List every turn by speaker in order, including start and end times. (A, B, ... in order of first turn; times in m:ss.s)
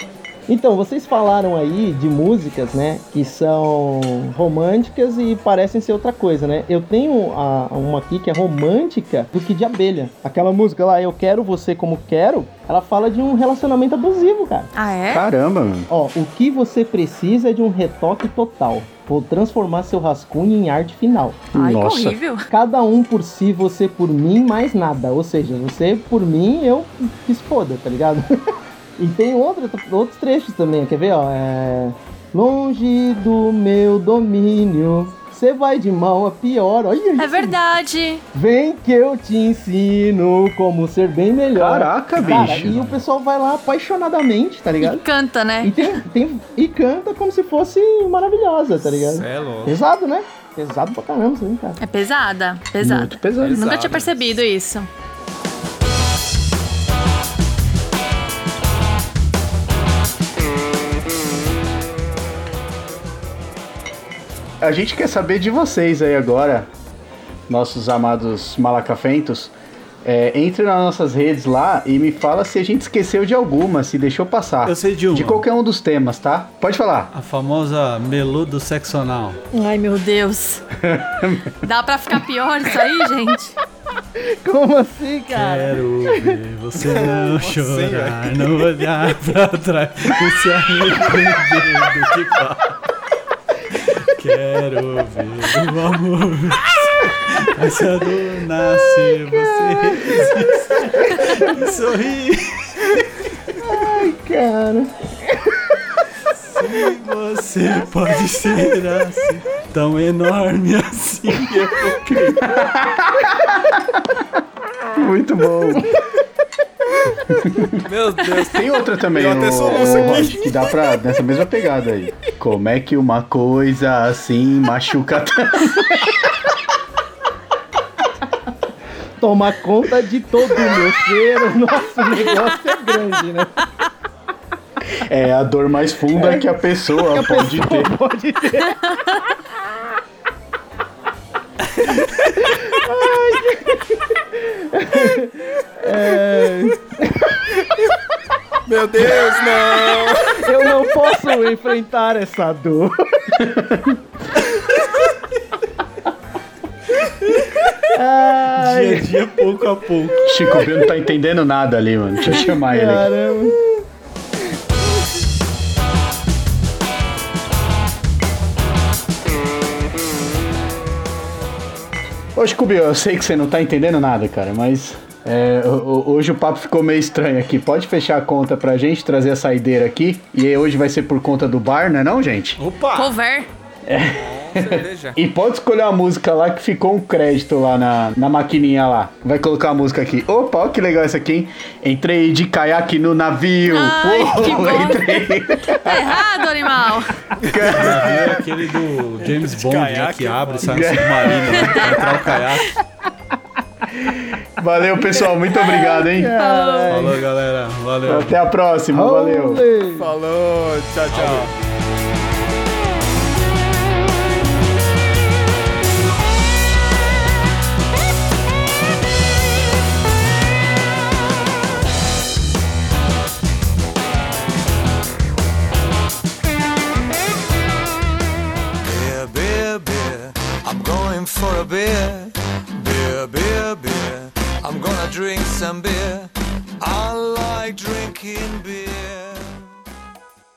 0:00.5-0:14.7 A
0:14.7-0:15.2 B
0:15.1-0:15.9 C
0:15.9-0:21.4 A
0:21.5-0:22.2 C
0:21.5-0:22.5 B
0:22.5-0:28.4 A
0:29.0-0:37.6 A
0:37.2-0:38.2 B
0:38.3-0:45.0 A
0:41.5-0:42.9 C
0:42.2-0:43.0 D
0:44.8-0:45.8 B
0:45.6-0:51.8 A
0:48.9-0:49.8 E
0:51.8-0:54.9 B
0:52.8-0:53.6 C
0:53.4-0:54.2 E
1:04.6-1:06.7 C
1:07.5-1:09.5 C
1:10.0-1:17.1 C
1:14.6-1:15.4 D
1:17.1-1:19.4 D
1:19.5-1:20.6 B
1:20.8-1:21.6 C
1:21.6-1:23.6 B
1:24.2-1:26.4 A
1:25.3-1:32.8 D
1:26.8-1:28.9 E
1:33.7-1:43.2 D
1:39.4-1:40.3 A
1:40.9-1:41.5 A
1:43.6-1:45.7 A
1:46.3-1:52.6 D
1:52.4-1:53.8 C
1:54.9-1:55.9 C
1:57.3-1:57.8 C
1:57.8-2:00.9 E
1:58.4-2:06.2 C
2:09.2-2:13.5 A
2:14.9-2:17.9 C
2:16.1-2:16.4 A
2:17.0-2:19.1 A
2:21.8-2:22.1 D
2:22.4-2:27.4 A
2:28.6-2:30.8 E
2:29.7-2:33.4 A
2:33.4-2:34.0 C
2:37.9-2:39.2 A
2:38.5-2:40.3 D
2:40.2-2:43.1 C
2:42.2-2:43.8 A
2:52.4-3:02.6 C
3:02.6-3:03.1 D
3:02.9-3:03.5 B
3:03.9-3:16.2 C
3:04.1-3:05.2 E
3:13.7-3:15.0 B
3:15.6-3:17.1 B
3:17.4-3:18.4 C
3:17.4-3:17.8 E
3:17.6-3:22.8 D
3:19.3-3:21.8 E
3:20.7-3:21.4 C
3:21.6-3:22.2 B
3:24.0-3:26.4 C
3:25.5-3:27.1 B
3:25.6-3:27.2 A
3:26.9-3:28.3 D
3:28.1-3:29.6 C
3:28.9-3:30.1 A
3:30.0-3:31.6 E
3:31.1-3:31.5 D
3:48.8-3:59.7 F